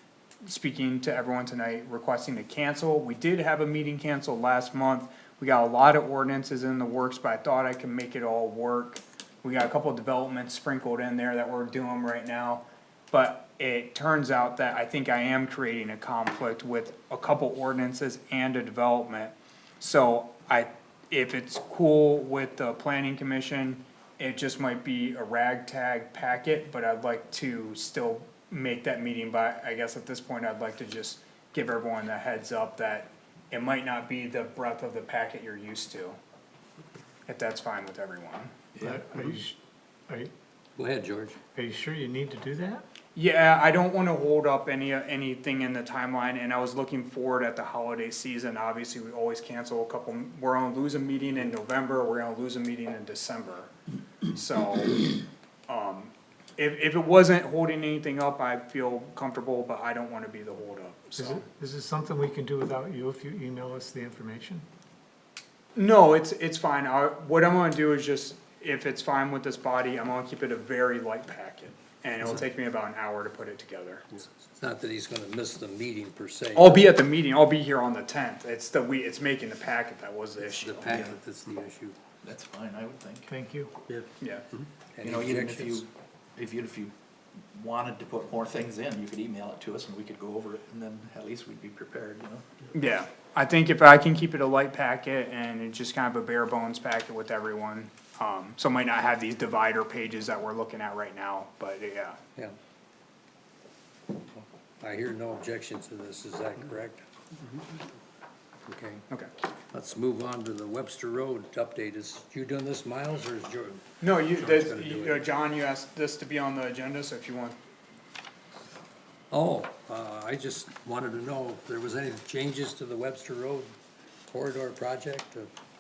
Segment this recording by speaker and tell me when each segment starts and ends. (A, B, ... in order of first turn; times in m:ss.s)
0:00.4-0:36.2 A
0:37.3-0:38.5 A
0:38.8-0:39.4 B
0:38.8-0:39.6 C
0:40.8-0:41.4 D
0:41.6-0:42.8 C
0:43.2-0:53.7 A
0:54.3-0:55.1 A
0:55.7-1:01.5 A
1:01.2-1:04.6 C
1:05.8-1:14.1 A
1:14.2-1:16.9 D
1:16.6-1:21.1 A
1:20.4-1:22.0 D
1:20.9-1:21.2 B
1:22.2-1:23.3 B
1:23.3-1:23.7 C
1:24.2-1:24.4 A
1:24.9-1:25.8 D
1:25.0-1:26.9 B
1:27.5-1:32.4 B
1:32.7-1:42.2 A
1:44.3-1:47.0 D
1:48.7-1:49.0 D
1:49.7-1:55.2 D
1:54.0-1:57.6 A
1:59.3-2:03.7 D
2:04.3-2:05.5 D